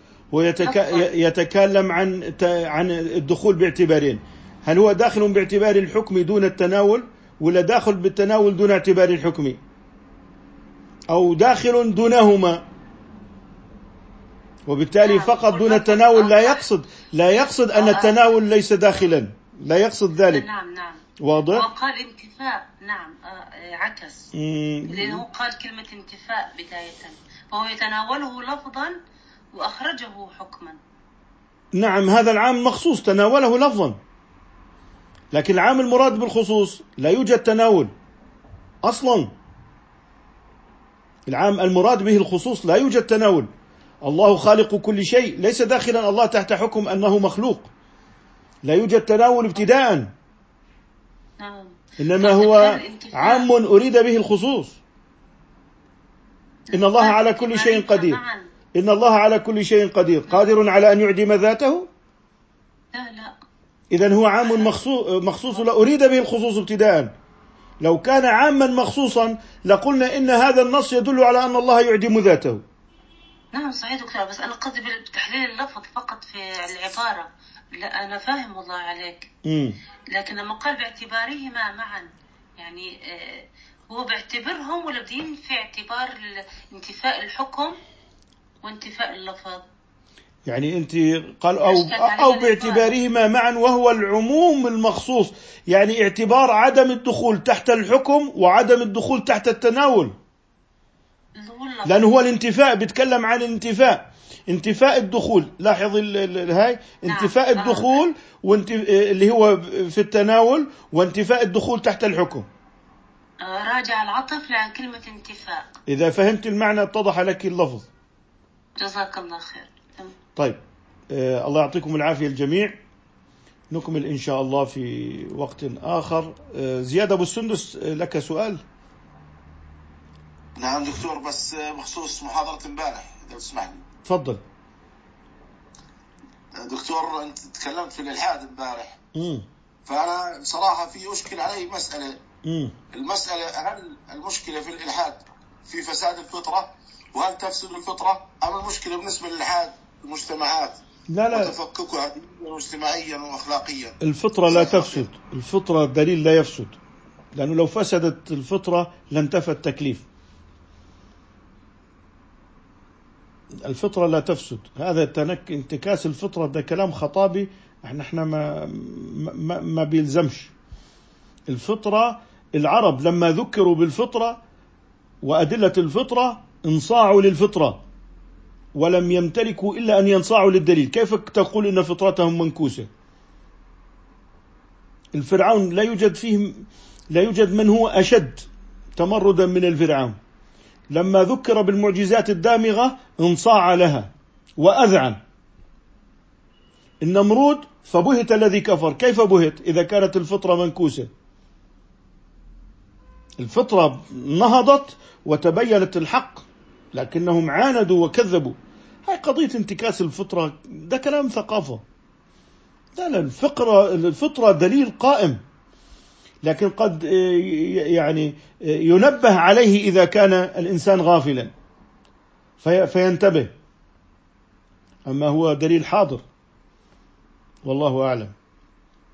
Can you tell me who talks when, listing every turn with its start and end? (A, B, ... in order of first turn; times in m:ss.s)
0:00.3-0:09.6 A
0:00.6-0:01.1 B
0:11.1-0:12.6 A
0:14.7-0:20.4 A
0:15.0-0:16.6 B
0:17.7-0:18.2 B
0:20.2-0:24.3 B
0:21.2-0:21.7 A
0:24.3-0:25.2 A
0:24.9-0:29.0 B
0:29.5-0:30.8 B
0:31.7-0:34.0 A
0:35.3-0:37.9 A
0:38.8-0:39.3 A
0:41.3-0:43.5 A
0:44.0-0:47.7 A
0:48.6-0:50.1 A
0:51.4-0:53.5 B
0:52.0-0:54.8 A
0:56.7-0:58.5 B
0:56.7-0:58.2 A
0:58.7-1:01.9 A
1:02.9-1:03.4 B
1:03.9-1:07.1 A
1:04.4-1:04.7 B
1:07.8-1:12.6 A
1:13.5-1:19.3 B
1:19.4-1:19.8 A
1:20.1-1:27.8 B
1:28.6-1:29.6 B
1:30.4-1:40.1 A
1:31.6-1:33.0 B
1:41.4-1:42.2 B
1:41.9-1:52.5 A
1:47.1-1:48.0 B
1:53.4-1:55.7 B
1:55.9-1:57.9 A
1:58.8-2:00.1 B
2:00.4-2:02.8 A
2:03.7-2:08.6 A
2:10.6-2:13.8 C
2:14.0-2:14.4 A
2:16.5-2:19.0 C
2:19.1-2:19.4 A
2:19.9-2:22.2 C
2:22.4-2:22.8 A
2:22.9-2:34.0 C
2:31.1-2:31.6 A
2:34.0-2:36.8 A
2:34.5-2:35.0 C
2:37.4-2:40.1 A
2:43.6-2:50.5 A
2:51.5-2:54.4 A
2:55.2-2:57.8 A
2:58.7-3:02.9 A
3:05.1-3:10.2 A
3:10.9-3:15.2 A
3:17.0-3:21.1 A
3:23.4-3:31.8 A
3:33.0-3:35.4 A
3:36.4-3:41.5 A
3:42.6-3:43.5 A
3:45.1-3:46.2 A
3:47.6-3:48.3 A